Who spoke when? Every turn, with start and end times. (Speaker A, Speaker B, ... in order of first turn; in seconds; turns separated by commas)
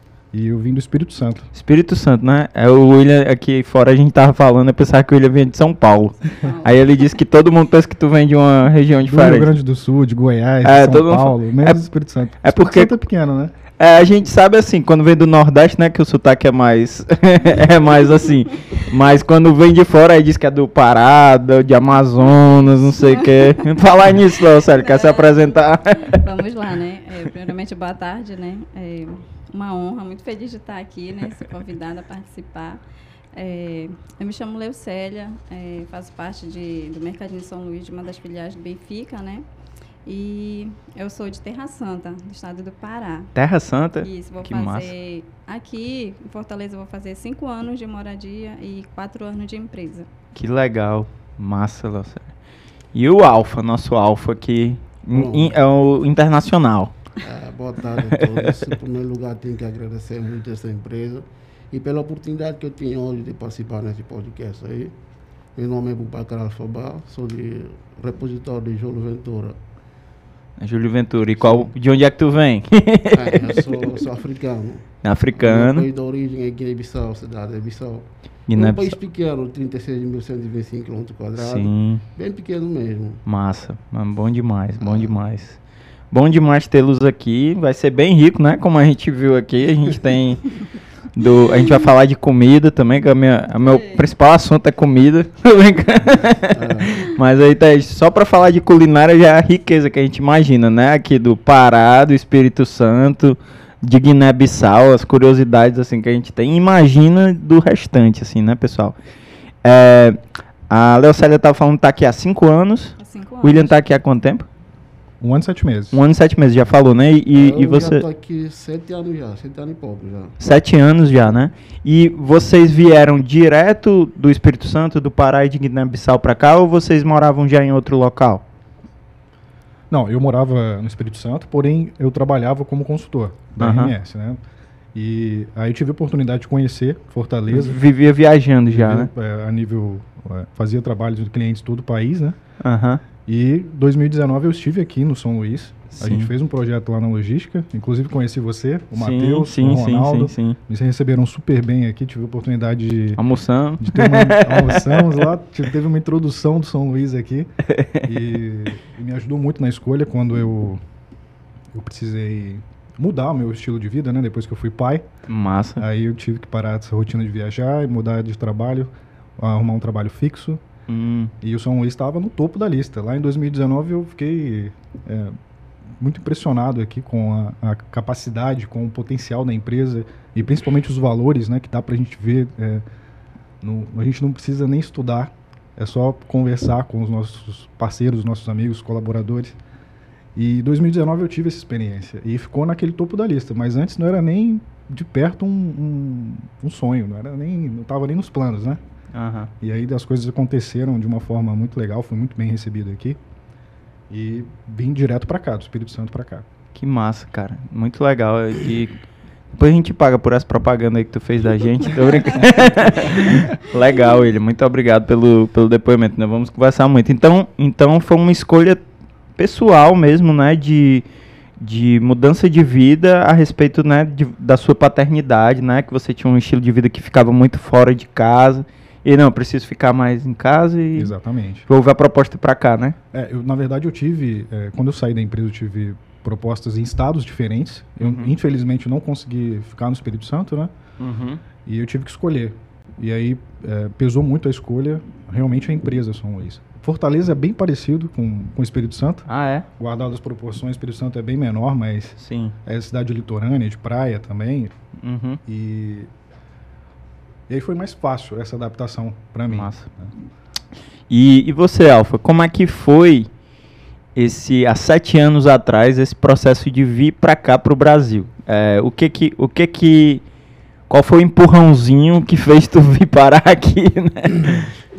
Speaker A: 0.3-1.5, Speaker B: 1.5-9.6, Speaker C: 6.3-6.9, Speaker A: 9.0-13.5, Speaker B: 10.6-11.9, Speaker B: 12.4-12.9, Speaker B: 13.8-26.4, Speaker C: 22.4-23.7, Speaker C: 24.7-32.8, Speaker C: 33.4-39.5, Speaker C: 40.0-43.3, Speaker B: 43.4-44.9, Speaker C: 44.0-50.1, Speaker B: 50.3-52.3, Speaker B: 52.9-56.9, Speaker D: 55.1-55.6, Speaker D: 57.2-64.9, Speaker B: 58.0-58.7, Speaker D: 65.6-69.6, Speaker B: 70.6-74.0, Speaker D: 71.4-71.7, Speaker D: 73.1-83.2, Speaker B: 75.0-75.9, Speaker B: 78.5-79.0, Speaker B: 81.4-82.0, Speaker B: 83.2-85.6, Speaker D: 84.8-85.2, Speaker B: 86.1-90.5, Speaker B: 91.1-109.0, Speaker C: 93.6-94.0, Speaker D: 96.5-97.1, Speaker B: 109.6-110.2, Speaker B: 110.7-114.5, Speaker C: 113.0-113.8, Speaker A: 115.2-116.0, Speaker B: 115.9-118.0, Speaker D: 117.3-120.3, Speaker B: 120.4-128.4, Speaker A: 129.9-134.4, Speaker B: 133.6-133.9, Speaker A: 134.9-137.8, Speaker B: 137.5-139.1, Speaker A: 138.7-142.4, Speaker B: 142.6-143.0, Speaker A: 143.2-153.2, Speaker B: 145.9-146.3, Speaker B: 148.9-150.6, Speaker B: 153.2-155.3, Speaker A: 153.8-157.5, Speaker B: 157.8-158.2, Speaker A: 158.0-160.8, Speaker A: 161.7-165.1, Speaker B: 165.3-165.8, Speaker A: 165.8-170.6, Speaker B: 170.9-171.3, Speaker A: 171.4-175.3, Speaker A: 176.0-182.8, Speaker A: 183.6-189.6, Speaker A: 190.3-198.8, Speaker B: 199.1-199.5, Speaker A: 199.6-203.2, Speaker A: 204.1-206.4, Speaker B: 206.7-209.0, Speaker B: 209.5-218.8, Speaker B: 219.4-221.1, Speaker B: 221.6-231.1, Speaker A: 231.0-231.7, Speaker B: 231.7-233.0, Speaker A: 233.1-240.7, Speaker B: 238.0-238.3, Speaker B: 241.0-241.4, Speaker A: 241.7-254.7, Speaker B: 249.3-249.7, Speaker B: 252.2-252.5, Speaker B: 255.0-255.4, Speaker A: 255.4-256.1, Speaker A: 257.5-260.1, Speaker B: 259.5-259.9, Speaker B: 261.1-263.3, Speaker B: 264.1-270.2, Speaker B: 270.9-274.7